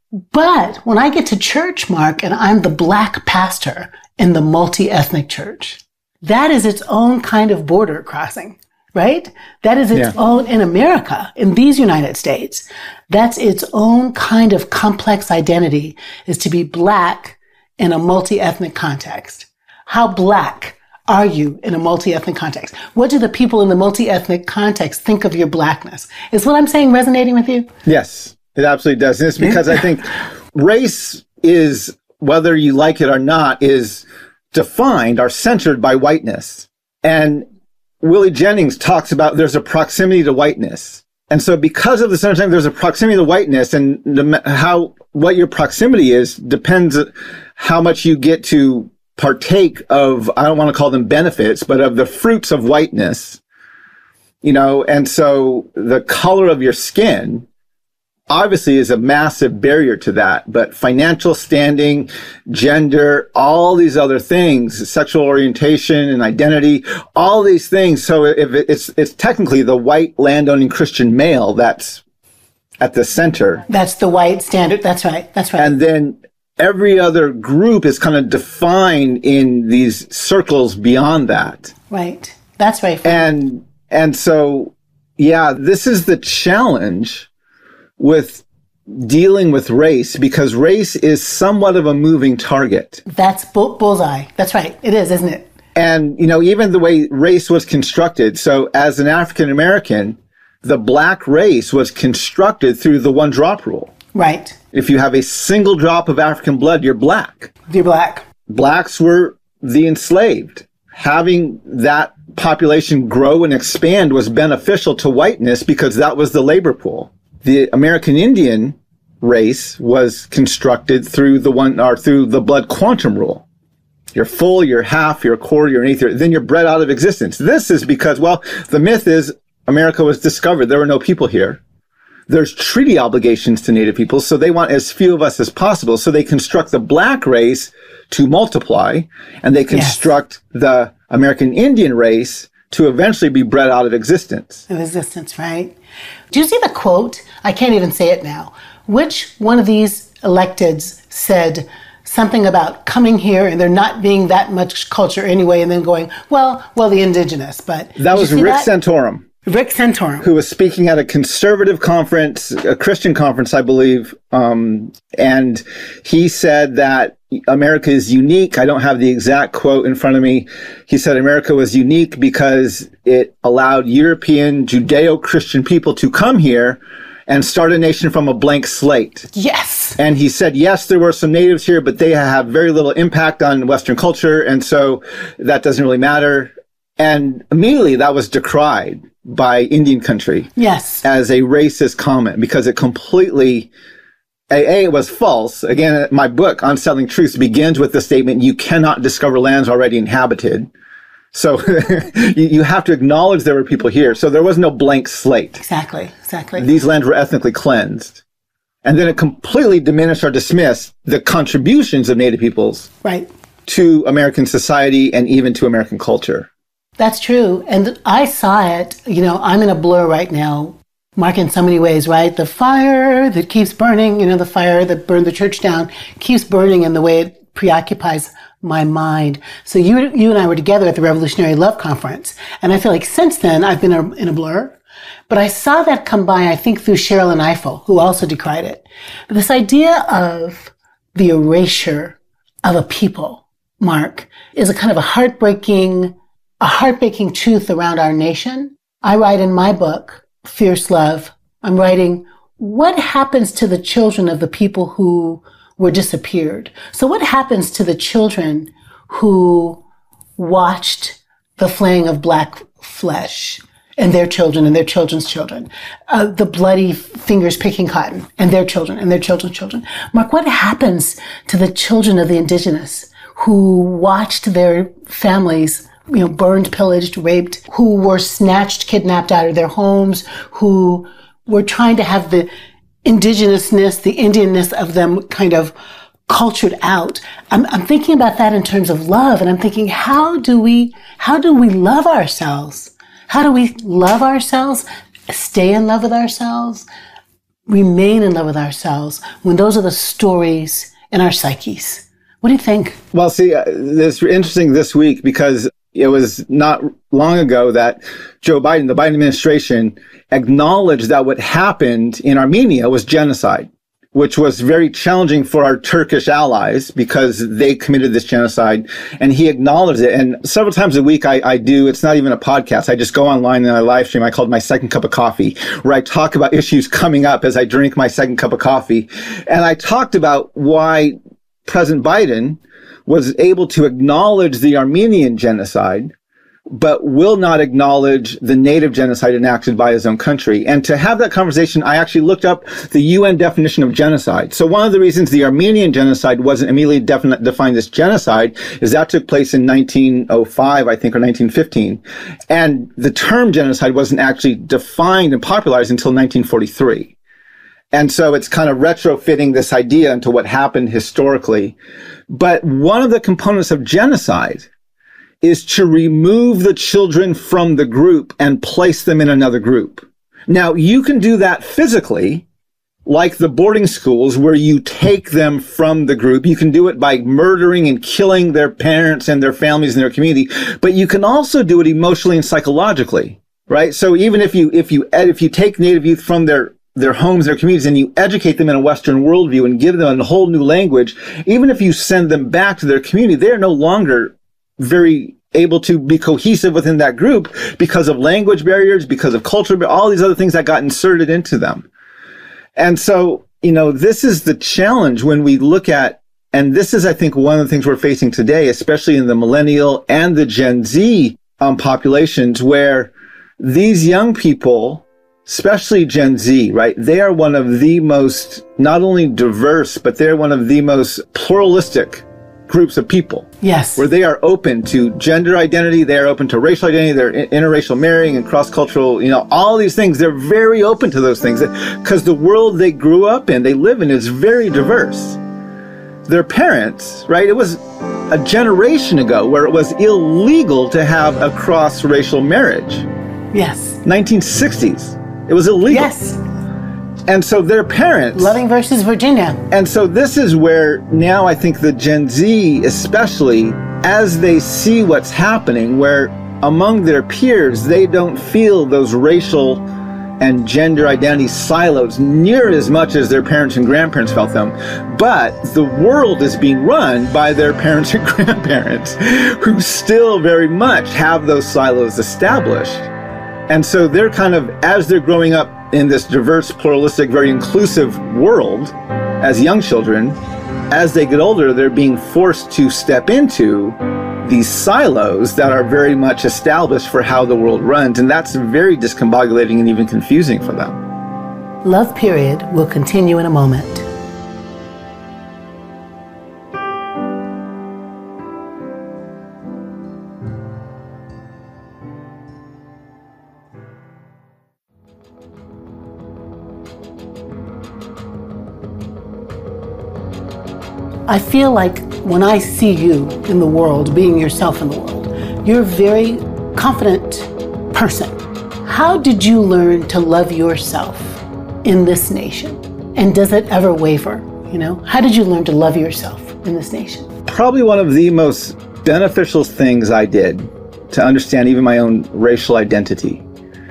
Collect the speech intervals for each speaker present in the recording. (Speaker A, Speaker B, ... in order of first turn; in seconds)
Speaker A: 0.3-27.7, 73.7-75.7, 81.9-83.3, 93.1-95.5, 104.1-104.6, 107.7-108.3, 139.7-140.1, 144.7-145.7, 146.3-158.7, 159.5-160.3, 179.3-180.0, 190.6-191.1, 205.6-206.7, 217.0-234.8, 235.3-259.8, 260.4-282.5, 283.1-285.8, 286.3-296.9, 297.7-303.0, 423.6-424.1, 443.5-444.0, 445.9-446.4, 448.3-449.6, 491.8-494.1, 511.3-527.3
Speaker B: 27.9-37.5, 38.0-53.4, 54.4-57.5, 58.3-72.0, 72.8-73.7, 75.6-81.7, 83.0-87.3, 88.0-93.0, 95.8-104.0, 104.7-107.5, 108.5-123.5, 124.1-131.6, 132.3-144.7, 158.0-159.2, 160.2-179.3, 180.0-190.5, 191.0-193.7, 194.5-200.7, 201.3-205.6, 206.6-208.2, 208.8-212.9, 213.7-216.5, 303.1-336.1, 336.7-357.1, 357.9-361.8, 362.3-364.7, 365.4-372.4, 373.1-401.9, 402.8-435.4, 436.3-443.1, 444.0-446.1, 447.3-448.6, 449.7-459.8, 460.4-473.1, 473.7-480.4, 480.9-491.0, 527.5-533.5